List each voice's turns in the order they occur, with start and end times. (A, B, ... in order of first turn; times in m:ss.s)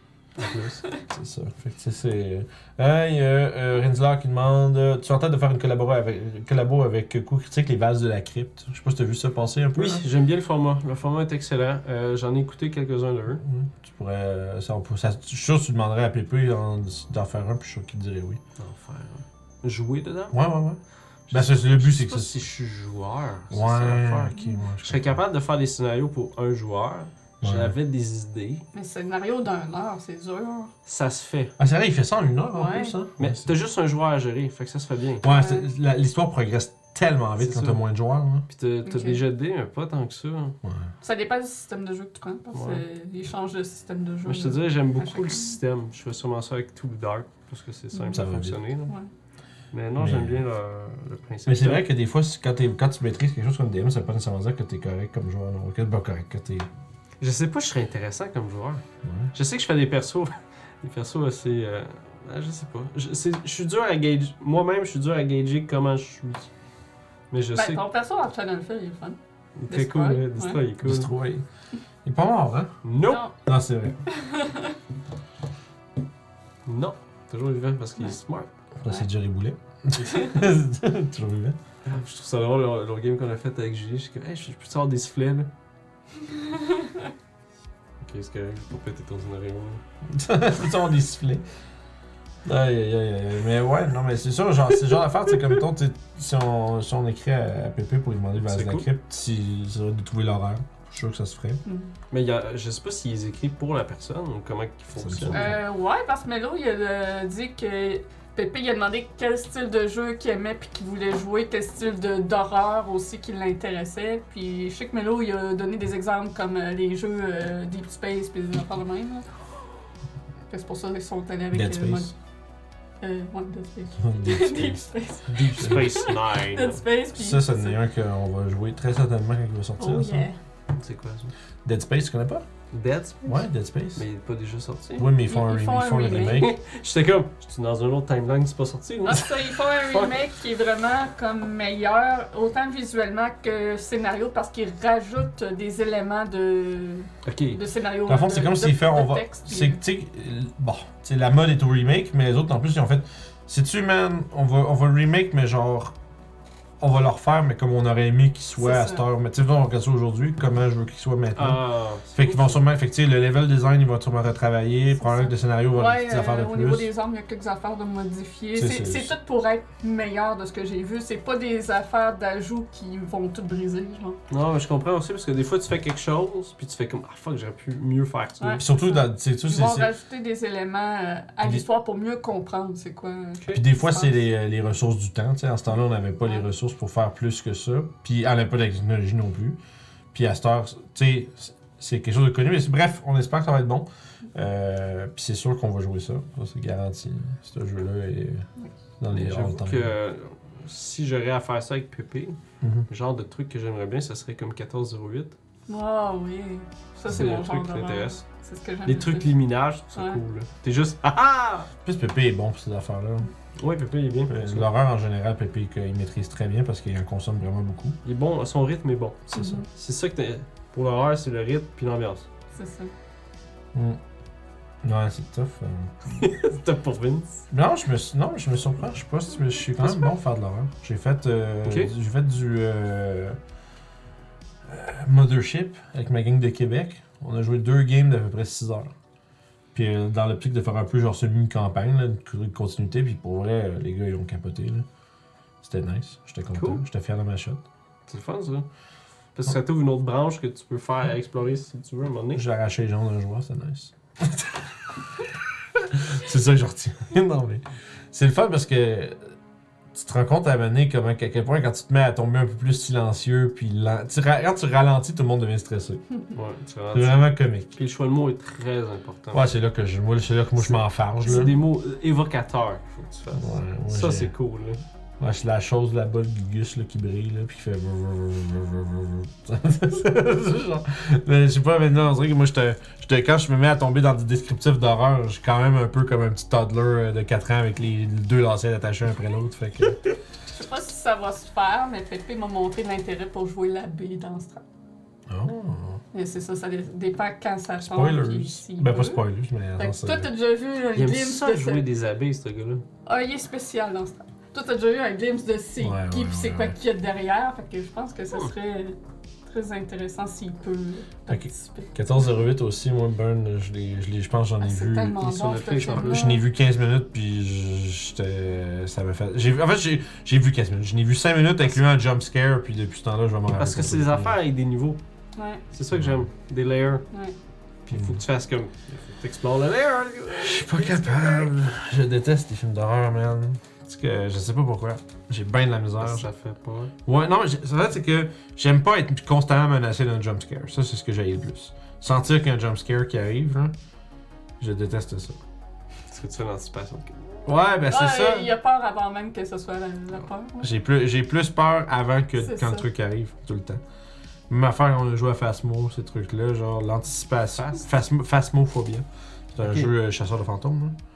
0:00.4-0:00.8 A
0:01.1-0:10.0 B
0:09.7-0:13.4 A
0:13.4-0:18.4 B
0:18.6-0:20.4 A
0:20.3-0:20.8 B
0:21.3-0:28.6 A
0:21.3-0:22.4 B
0:23.5-0:25.2 B
0:27.4-0:27.7 B
0:28.7-0:30.7 C
0:30.8-0:31.5 A
0:31.6-0:33.5 B
0:32.5-0:32.9 C
0:33.2-0:35.2 A
0:35.2-0:38.4 B
0:35.2-0:35.6 C
0:37.4-0:37.8 A
0:38.5-0:40.6 A
0:38.8-0:39.2 C
0:41.0-0:45.5 C
0:42.5-0:42.8 A
0:44.2-0:48.9 A
0:47.9-0:48.2 C
0:48.1-0:48.6 B
0:49.7-0:51.8 A
0:50.0-0:50.4 B
0:51.4-0:56.7 B
0:57.2-0:58.8 A
0:59.0-0:59.3 B
0:59.3-1:06.5 A
1:07.3-1:07.8 A
1:07.5-1:09.2 C
1:09.6-1:11.1 A
1:09.7-1:10.6 C
1:10.8-1:11.4 B
1:12.0-1:12.7 B
1:12.8-1:13.3 A
1:13.0-1:13.3 C
1:13.4-1:14.0 B
1:14.1-1:14.7 C
1:16.6-1:18.5 A
1:18.8-1:21.6 B
1:21.8-1:25.5 A
1:28.0-1:29.8 A
1:30.1-1:31.4 B
1:32.4-1:41.6 B
1:38.4-1:38.9 A
1:41.6-1:41.9 C
1:42.1-1:45.6 A
1:45.0-1:45.6 B
1:45.3-1:59.2 C
2:00.5-2:02.1 C
2:01.5-2:02.1 B
2:03.0-2:07.8 C
2:04.0-2:06.0 B
2:05.4-2:06.8 A
2:07.1-2:10.3 B
2:09.8-2:10.4 C
2:10.7-2:11.3 A
2:11.6-2:12.4 B
2:12.7-2:13.4 A
2:13.2-2:14.0 B
2:14.0-2:15.1 A
2:15.0-2:16.5 B
2:15.3-2:16.5 C
2:16.1-2:19.3 A
2:19.0-2:29.8 C
2:19.8-2:20.2 A
2:27.2-2:27.6 A
2:28.1-2:35.9 B
2:36.8-2:41.6 B
2:38.6-2:39.0 C
2:41.3-2:42.6 A
2:42.1-2:46.9 B
2:45.0-2:54.2 C
2:48.6-2:49.1 B
2:54.3-2:58.6 A
2:58.4-3:04.2 C
2:58.6-2:59.9 B
3:03.5-3:09.6 B
3:10.1-3:18.4 B
3:19.0-3:19.9 B
3:19.1-3:22.4 A
3:22.6-3:22.9 B
3:22.9-3:25.4 A
3:25.7-3:29.4 C
3:27.1-3:28.2 A
3:28.8-3:31.7 A
3:29.9-3:30.2 C
3:31.8-3:33.3 B
3:33.6-3:34.7 A
3:34.3-3:38.0 B
3:38.0-3:42.3 A
3:39.3-3:39.6 B
3:39.3-3:39.7 C
3:42.5-3:42.9 C
3:43.7-3:44.0 B
3:44.8-3:45.9 B
3:46.1-3:47.4 A
3:47.5-3:53.4 B
3:51.6-3:51.9 A
3:54.7-3:58.9 B
3:59.7-4:04.8 B
4:05.6-4:07.6 B
4:06.5-4:06.8 A
4:08.1-4:08.7 A
4:09.3-4:12.4 A
4:12.3-4:14.6 B
4:15.8-4:19.3 B
4:19.9-4:26.0 B
4:26.3-4:29.5 A
4:26.9-4:27.8 B
4:29.3-4:31.5 B
4:30.7-4:34.8 A
4:33.3-4:34.3 B
4:35.2-4:50.0 B
4:50.5-4:54.6 C
4:55.3-4:56.0 B
4:56.1-4:59.2 C
4:57.8-5:00.3 B
4:59.8-5:01.8 C
5:00.9-5:02.8 A
5:03.0-5:12.4 C
5:05.8-5:06.8 B
5:11.3-5:15.3 B
5:14.6-5:16.4 C
5:15.2-5:16.4 A
5:15.8-5:24.4 B
5:23.5-5:25.0 A
5:25.4-5:25.6 C
5:25.7-5:27.0 A
5:25.9-5:26.2 B
5:27.9-5:31.5 A
5:27.9-5:28.2 B
5:30.4-5:36.2 B
5:36.0-5:36.9 A
5:37.0-5:43.7 B
5:44.6-5:45.4 B
5:46.1-5:47.5 A
5:47.4-5:48.5 B
5:47.9-5:50.7 C
5:50.6-5:53.8 B
5:52.4-5:52.8 C
5:54.5-6:00.9 B
5:57.6-5:57.9 A
5:59.6-5:59.9 A